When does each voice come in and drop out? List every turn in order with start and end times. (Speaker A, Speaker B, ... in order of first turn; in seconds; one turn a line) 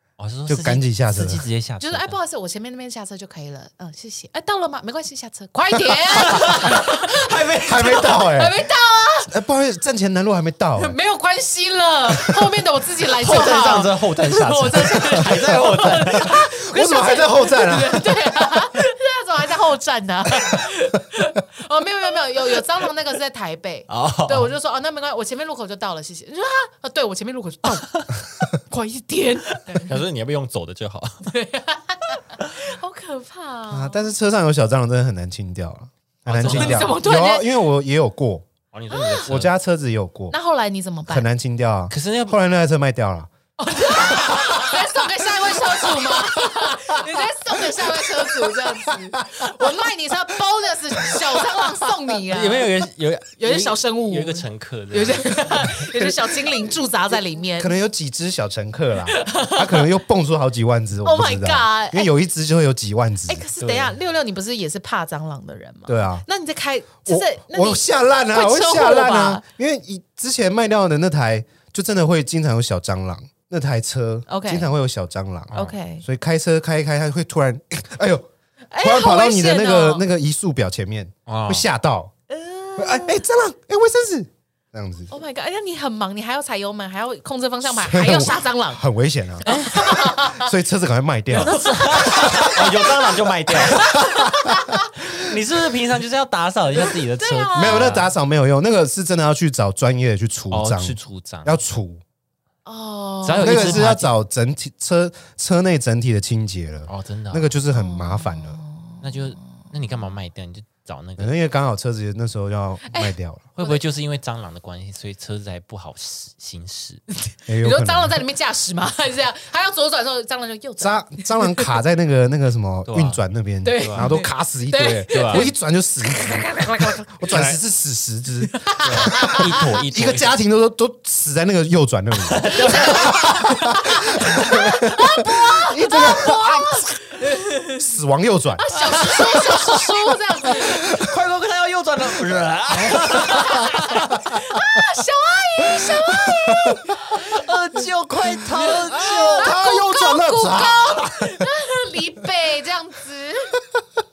Speaker A: 0.2-2.2
Speaker B: 0.5-1.4
Speaker C: 1.8-9.3
Speaker A: 6.2-8.0
Speaker B: 7.6-8.7
Speaker B: 9.3-11.0
Speaker C: 10.8-30.0
Speaker A: 13.2-16.4
Speaker B: 15.9-18.2
Speaker A: 23.9-24.5
Speaker A: 29.5-31.3
Speaker C: 31.3-34.1
Speaker B: 33.7-38.5
Speaker A: 36.3-37.0
Speaker C: 36.4-37.6
Speaker A: 38.7-39.5
Speaker C: 38.9-39.2
Speaker B: 39.3-40.4
Speaker C: 40.3-41.3
Speaker B: 41.1-43.3
Speaker A: 41.9-42.4
Speaker C: 43.6-52.9
Speaker B: 48.5-49.7
Speaker A: 52.3-55.8
Speaker C: 53.4-57.8
Speaker B: 56.0-56.4
Speaker B: 57.6-63.5
Speaker C: 59.1-59.9
Speaker C: 61.0-62.1
Speaker C: 63.3-69.4
Speaker A: 63.6-64.0
Speaker B: 65.9-66.2
Speaker B: 67.1-78.3
Speaker C: 74.3-74.7
Speaker A: 75.5-75.8
Speaker C: 75.5-76.0
Speaker C: 78.7-80.1
Speaker B: 78.8-82.1
Speaker A: 81.3-81.7
Speaker C: 82.3-83.2
Speaker B: 82.8-85.1
Speaker C: 85.1-88.8
Speaker B: 87.7-92.5
Speaker C: 89.4-90.5
Speaker A: 89.5-90.0
Speaker A: 91.3-94.0
Speaker C: 91.4-94.8
Speaker B: 93.7-94.6
Speaker A: 95.0-98.1
Speaker C: 97.2-98.0
Speaker B: 97.5-102.0
Speaker A: 100.5-101.6
Speaker C: 102.7-103.9
Speaker A: 103.2-104.1
Speaker B: 103.4-108.6
Speaker A: 106.9-107.5
Speaker C: 107.7-109.3
Speaker A: 109.0-111.3
Speaker B: 111.2-113.5
Speaker C: 112.9-113.8
Speaker A: 113.6-117.0
Speaker C: 117.3-121.7
Speaker B: 117.5-118.2
Speaker B: 120.8-136.9
Speaker A: 122.9-124.1
Speaker C: 123.6-127.1
Speaker A: 125.1-125.5
Speaker A: 127.3-127.6
Speaker C: 128.5-129.6
Speaker A: 128.8-130.4
Speaker A: 132.3-133.4
Speaker C: 132.4-137.8
Speaker B: 137.7-138.7
Speaker C: 138.6-141.1
Speaker A: 138.8-139.8
Speaker A: 140.5-144.2
Speaker B: 140.5-141.1
Speaker C: 142.9-147.4
Speaker B: 145.7-147.2
Speaker A: 147.1-149.6
Speaker C: 148.6-153.6
Speaker B: 148.9-151.5